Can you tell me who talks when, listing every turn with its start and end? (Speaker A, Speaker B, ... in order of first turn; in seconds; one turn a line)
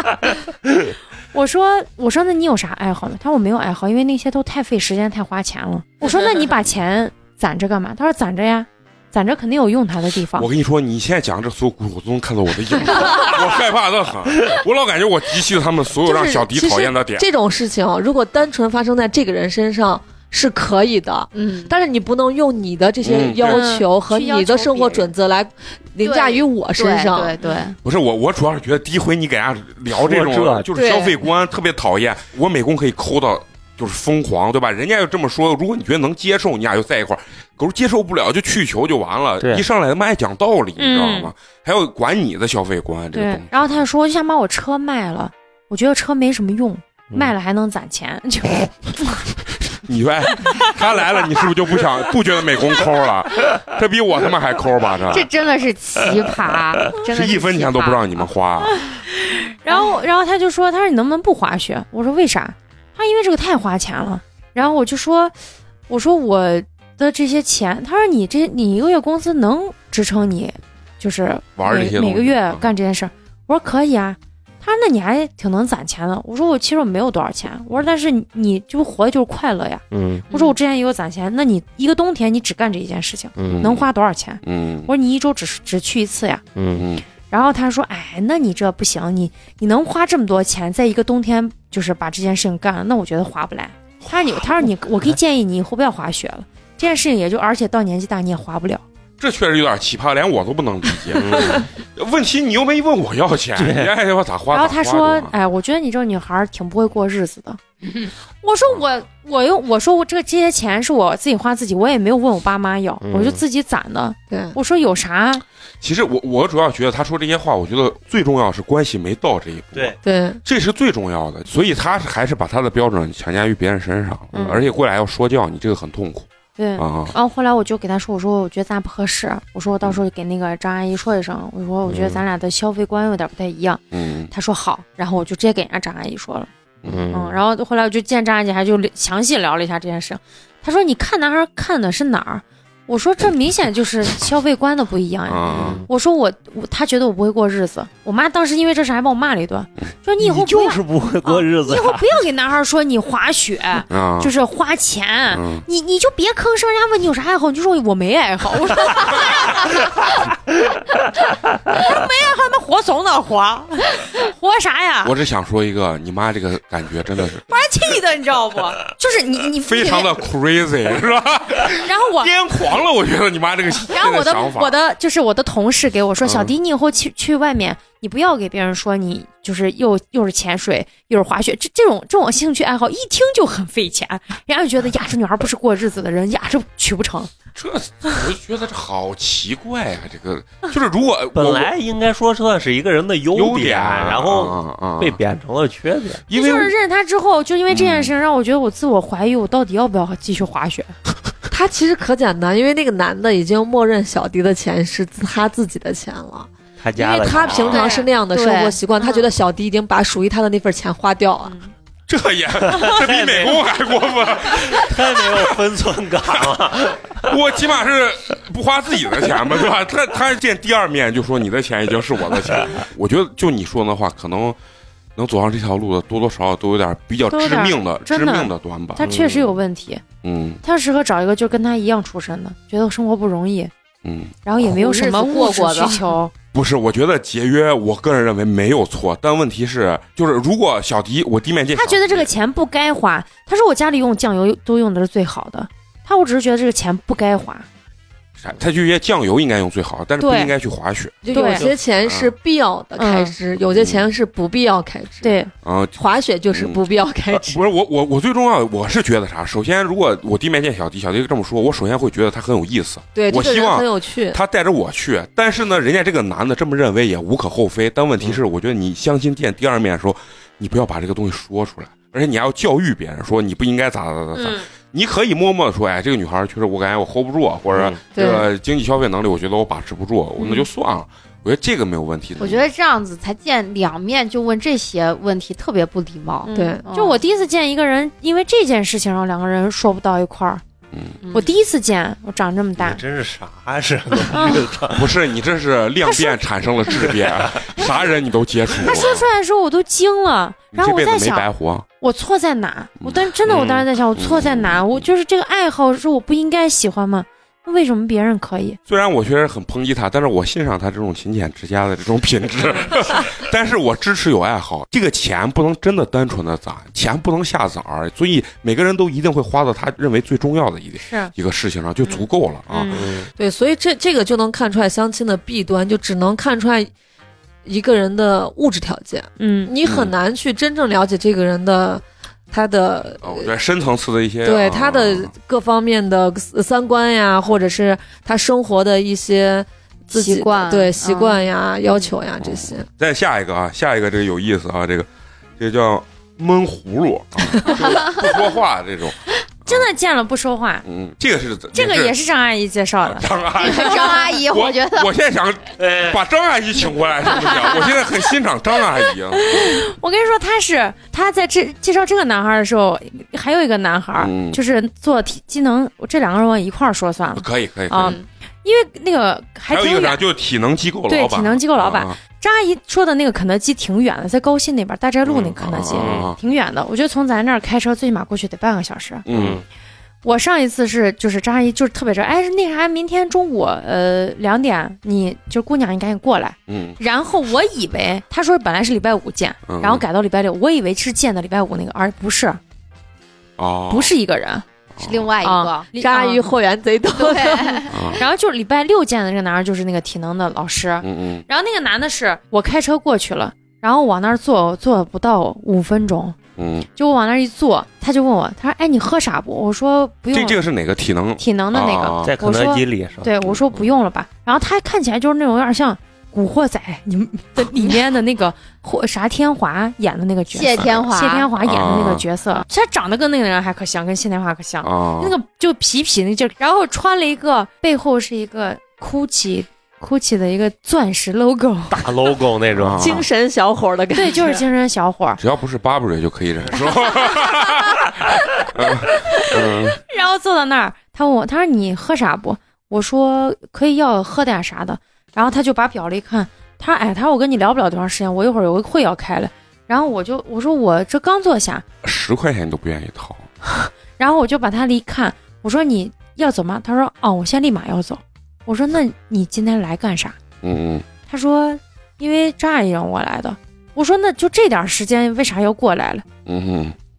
Speaker A: 1.3-10.5
Speaker B: 10.4-17.2
Speaker A: 16.0-16.6
Speaker C: 16.6-27.4
Speaker D: 21.3-21.7
Speaker B: 23.0-23.6
Speaker A: 23.4-25.1
Speaker D: 26.0-27.8
Speaker B: 27.8-43.8
Speaker E: 29.9-30.7
Speaker C: 30.8-31.1
Speaker D: 30.8-31.1
Speaker E: 39.4-39.6
Speaker A: 40.8-41.3
Speaker A: 43.1-49.3
Speaker B: 49.8-55.3
Speaker A: 50.4-50.8
Speaker D: 55.1-58.2
Speaker B: 57.1-58.8
Speaker A: 58.6-65.3
Speaker A: 65.9-86.4
Speaker B: 71.6-72.7
Speaker E: 79.9-80.2
Speaker D: 80.3-80.5
Speaker E: 83.4-83.7
Speaker B: 83.5-83.9
Speaker B: 84.4-84.9
Speaker E: 86.5-86.8
Speaker B: 86.8-87.0
Speaker A: 87.3-98.8
Speaker B: 94.1-94.6
Speaker B: 99.2-105.3
Speaker E: 101.2-101.6
Speaker E: 103.5-103.9
Speaker A: 104.5-107.6
Speaker A: 108.4-115.4
Speaker E: 113.0-113.4
Speaker C: 114.3-114.5
Speaker B: 115.8-127.1
Speaker C: 120.0-120.4
Speaker A: 124.3-124.6
Speaker A: 126.6-136.5
Speaker E: 131.9-132.2
Speaker B: 133.9-134.3
Speaker B: 136.8-137.1
Speaker E: 136.8-137.4
Speaker A: 137.1-160.0
Speaker B: 145.3-145.8
Speaker E: 145.5-145.8
Speaker E: 150.2-152.1
Speaker B: 153.9-154.3
Speaker B: 155.3-155.6
Speaker A: 161.7-165.1
Speaker B: 165.0-167.5
Speaker A: 167.5-170.1
Speaker B: 169.6-174.7
Speaker A: 171.8-172.3
Speaker A: 173.9-187.3
Speaker B: 176.2-176.5
Speaker B: 187.6-191.7
Speaker E: 191.3-196.2
Speaker B: 193.3-195.2
Speaker B: 196.3-196.7
Speaker A: 196.3-200.9
Speaker B: 197.7-198.1
Speaker C: 201.5-211.6
Speaker E: 206.8-207.9
Speaker D: 207.5-209.2
Speaker A: 211.4-211.7
Speaker B: 212.1-215.4
Speaker E: 212.7-213.6
Speaker E: 214.5-217.3
Speaker B: 217.2-224.6
Speaker B: 225.2-229.1
Speaker A: 227.3-230.0
Speaker E: 229.0-229.5
Speaker B: 230.2-230.6
Speaker A: 230.6-233.7
Speaker B: 234.0-234.3
Speaker A: 234.4-236.3
Speaker D: 234.6-236.0
Speaker B: 236.5-242.3
Speaker A: 241.7-247.7
Speaker B: 248.4-252.3
Speaker A: 250.2-250.5
Speaker C: 251.2-255.4
Speaker A: 251.3-251.7
Speaker A: 253.0-253.3
Speaker B: 253.7-254.1
Speaker A: 255.2-255.5
Speaker B: 255.6-256.0
Speaker C: 255.9-257.6
Speaker B: 256.5-256.8
Speaker B: 257.3-282.7
Speaker C: 263.1-264.4
Speaker A: 274.3-274.6
Speaker E: 277.7-278.0
Speaker A: 280.4-280.6
Speaker D: 282.4-287.2
Speaker A: 286.4-290.6
Speaker C: 286.5-286.8
Speaker B: 290.9-291.2
Speaker D: 291.2-291.5
Speaker A: 291.3-293.0
Speaker E: 292.8-295.1
Speaker A: 294.3-294.6
Speaker B: 294.9-299.2
Speaker A: 296.0-296.4
Speaker E: 297.2-297.5
Speaker A: 298.8-301.5
Speaker B: 300.7-301.9
Speaker A: 302.0-308.8
Speaker E: 303.5-303.9
Speaker B: 304.1-305.0
Speaker B: 308.9-323.1
Speaker A: 321.0-321.3
Speaker A: 322.1-323.0
Speaker E: 322.9-323.3
Speaker C: 323.4-326.9
Speaker C: 327.6-333.5
Speaker A: 329.4-329.7
Speaker B: 329.8-330.1
Speaker B: 333.2-335.3
Speaker C: 334.4-342.9
Speaker D: 340.1-342.1
Speaker B: 342.4-345.1
Speaker B: 345.6-349.9
Speaker D: 347.7-348.2
Speaker A: 349.6-350.8
Speaker B: 350.8-352.1
Speaker A: 351.7-354.2
Speaker B: 353.0-359.8
Speaker D: 353.6-355.1
Speaker E: 355.8-356.2
Speaker A: 359.3-370.2
Speaker B: 364.2-364.6
Speaker B: 367.3-368.2
Speaker D: 368.0-368.2
Speaker B: 369.7-372.2
Speaker A: 371.1-379.2
Speaker B: 375.2-376.4
Speaker E: 376.0-376.3
Speaker B: 379.2-379.6
Speaker E: 379.3-379.6
Speaker A: 380.2-392.6
Speaker B: 386.7-387.0
Speaker B: 389.6-390.0
Speaker B: 393.6-394.1
Speaker A: 393.9-394.6
Speaker B: 394.9-395.3
Speaker D: 395.0-395.9
Speaker A: 395.4-396.5
Speaker C: 395.9-397.9
Speaker D: 397.1-398.1
Speaker B: 397.9-398.2
Speaker A: 398.2-406.4
Speaker B: 401.0-401.4
Speaker B: 406.6-406.9
Speaker A: 406.9-410.6
Speaker B: 410.3-412.3
Speaker A: 411.4-432.0
Speaker E: 412.2-413.4
Speaker D: 420.5-421.5
Speaker B: 421.6-422.2
Speaker B: 424.8-425.4
Speaker E: 431.9-433.2
Speaker B: 432.8-433.2
Speaker C: 433.0-434.6
Speaker A: 434.1-435.4
Speaker B: 435.4-440.0
Speaker A: 437.2-437.5
Speaker A: 439.3-451.8
Speaker B: 452.0-453.5
Speaker A: 453.8-460.4
Speaker B: 460.6-461.0
Speaker A: 461.3-466.2
Speaker B: 466.4-466.9